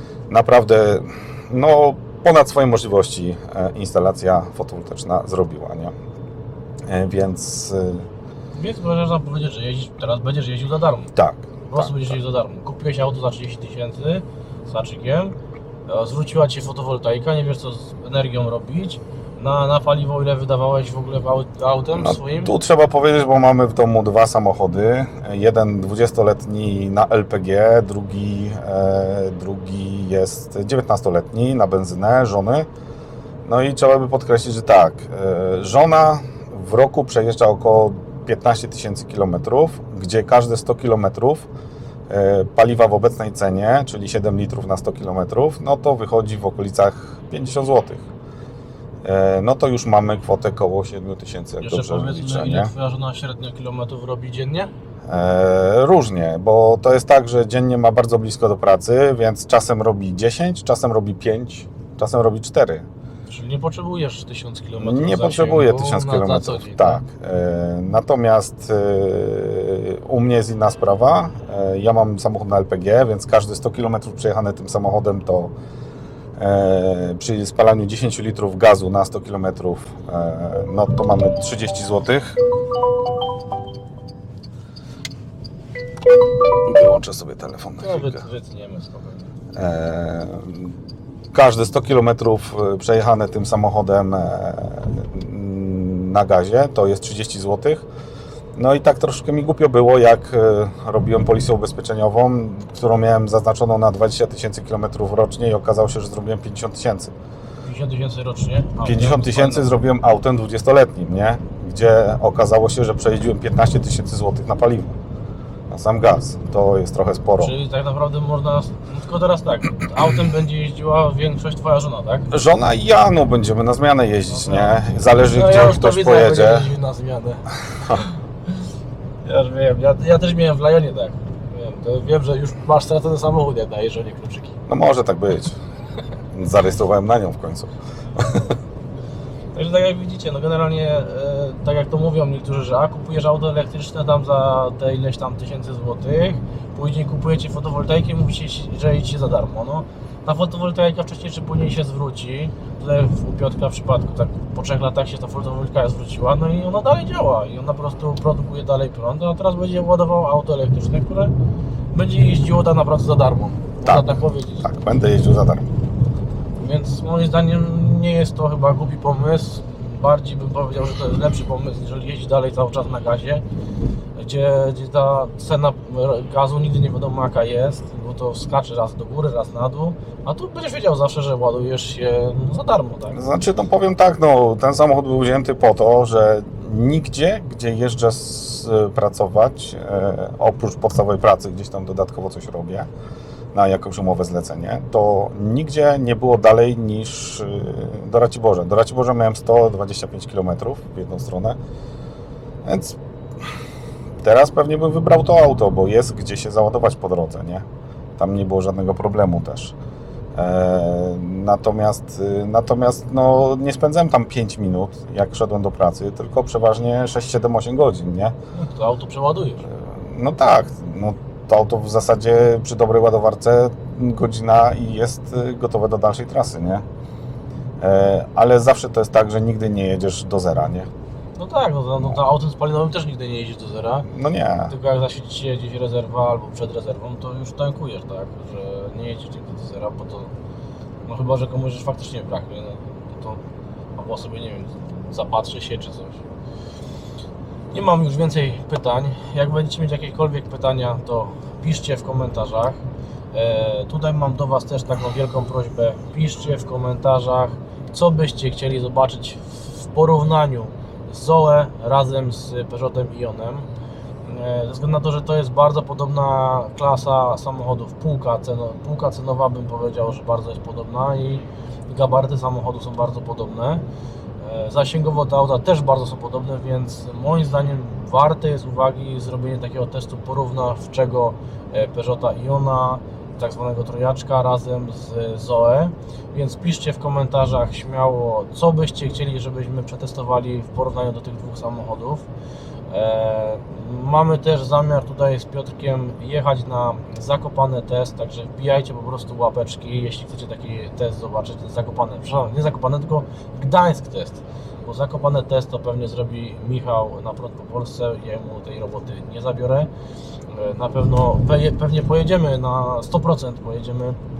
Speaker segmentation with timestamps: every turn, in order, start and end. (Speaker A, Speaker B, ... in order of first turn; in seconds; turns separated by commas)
Speaker A: 0.3-5.9, Speaker A: 6.9-8.1, Speaker B: 8.5-11.1, Speaker A: 11.2-12.2, Speaker B: 11.7-15.3, Speaker B: 15.9-22.5, Speaker A: 21.9-32.7, Speaker A: 33.4-41.5, Speaker A: 42.1-48.1, Speaker A: 49.0-52.7, Speaker B: 51.6-54.7, Speaker A: 55.1-62.9, Speaker B: 63.3-67.0, Speaker A: 64.8-75.5, Speaker A: 76.4-82.4, Speaker A: 86.6-88.2, Speaker B: 87.8-89.3, Speaker A: 89.5-90.7, Speaker A: 91.3-97.8, Speaker A: 98.5-107.1, Speaker B: 107.6-109.7, Speaker A: 108.8-115.0, Speaker A: 115.7-117.5, Speaker B: 117.4-122.3, Speaker A: 122.3-126.7, Speaker B: 124.3-124.8, Speaker B: 125.3-128.2, Speaker B: 129.2-134.5, Speaker A: 134.7-135.6, Speaker A: 136.3-138.5, Speaker B: 139.5-161.3, Speaker B: 161.9-164.7, Speaker A: 163.8-165.7, Speaker B: 166.6-173.4, Speaker B: 174.2-183.2, Speaker A: 183.1-192.9, Speaker A: 193.5-201.6, Speaker A: 202.6-203.0, Speaker A: 204.2-207.7, Speaker A: 208.2-209.7, Speaker A: 210.3-218.3, Speaker B: 218.5-219.7, Speaker A: 219.7-226.8, Speaker A: 227.8-230.9, Speaker B: 231.4-234.1, Speaker A: 234.1-234.7, Speaker B: 234.7-240.3, Speaker B: 241.0-243.4, Speaker B: 243.9-246.2, Speaker B: 247.7-263.7, Speaker B: 264.2-273.9, Speaker B: 274.4-292.3, Speaker B: 292.9-309.9, Speaker B: 310.5-314.2